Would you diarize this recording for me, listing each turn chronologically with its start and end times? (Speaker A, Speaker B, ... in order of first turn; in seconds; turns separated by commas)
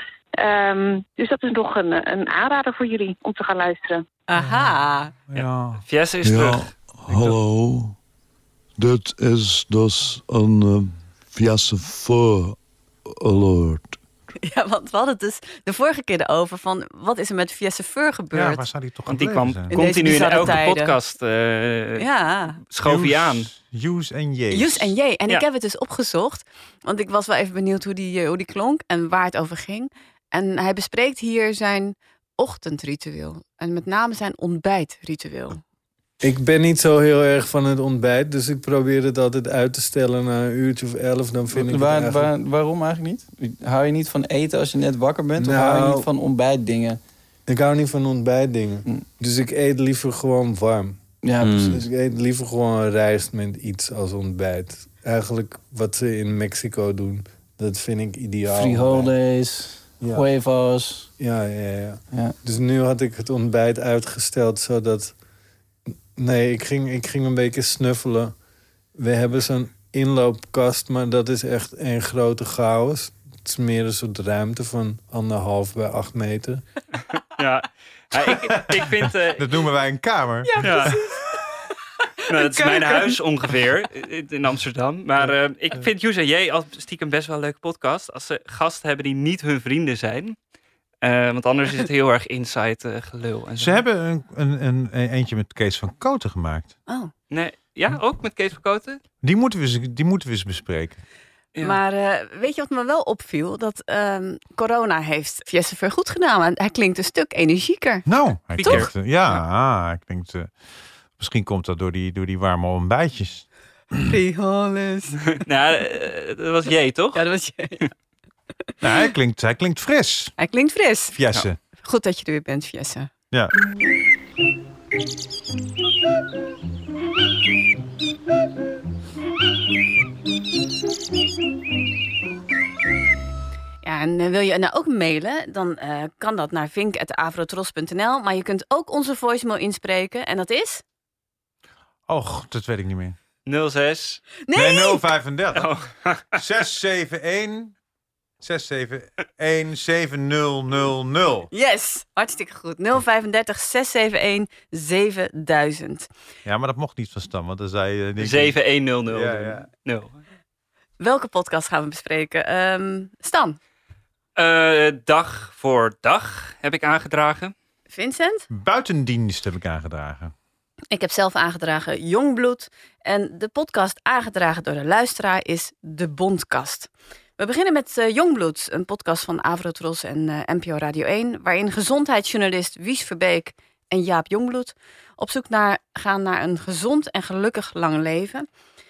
Speaker A: 0.4-4.0, Speaker B: 4.3-5.1, Speaker C: 4.3-5.8, Speaker D: 5.3-6.7, Speaker E: 6.2-8.0, Speaker C: 7.1-7.3, Speaker E: 8.8-13.9, Speaker B: 14.4-18.7, Speaker C: 18.3-20.6, Speaker D: 19.1-22.1, Speaker B: 19.7-20.9, Speaker B: 22.0-22.6, Speaker D: 22.7-23.5, Speaker C: 22.8-24.9, Speaker B: 24.5-35.6, Speaker F: 36.2-42.3, Speaker G: 41.5-47.0, Speaker F: 45.4-46.1, Speaker F: 47.5-59.1, Speaker G: 51.2-51.9, Speaker G: 58.4-61.1, Speaker F: 60.0-60.3, Speaker F: 61.2-65.2, Speaker G: 62.1-62.4, Speaker F: 66.1-68.4, Speaker F: 68.9-76.7, Speaker D: 77.3-79.4, Speaker C: 78.2-80.9, Speaker B: 80.4-81.4, Speaker D: 80.6-80.9, Speaker D: 82.3-90.3, Speaker B: 82.3-83.1, Speaker D: 91.0-93.8, Speaker C: 93.6-96.7, Speaker D: 97.3-99.0, Speaker C: 99.2-101.0, Speaker B: 101.6-109.3, Speaker C: 108.0-110.5, Speaker D: 108.5-108.9, Speaker C: 111.1-113.5, Speaker B: 114.1-115.4, Speaker D: 115.4-117.2, Speaker B: 117.1-117.9, Speaker C: 118.8-120.3, Speaker B: 120.4-121.2, Speaker C: 121.1-121.6, Speaker B: 121.8-123.1, Speaker B: 133.8-140.8, Speaker C: 142.1-143.2, Speaker D: 143.4-144.2, Speaker B: 144.5-145.1, Speaker C: 144.5-145.7, Speaker D: 145.5-146.2, Speaker C: 146.3-147.7, Speaker C: 148.4-151.5, Speaker B: 151.5-156.1, Speaker C: 156.4-159.7, Speaker D: 158.2-160.2, Speaker B: 161.0-163.6, Speaker D: 164.3-167.5, Speaker B: 167.9-168.5, Speaker C: 168.5-170.3, Speaker B: 170.9-188.4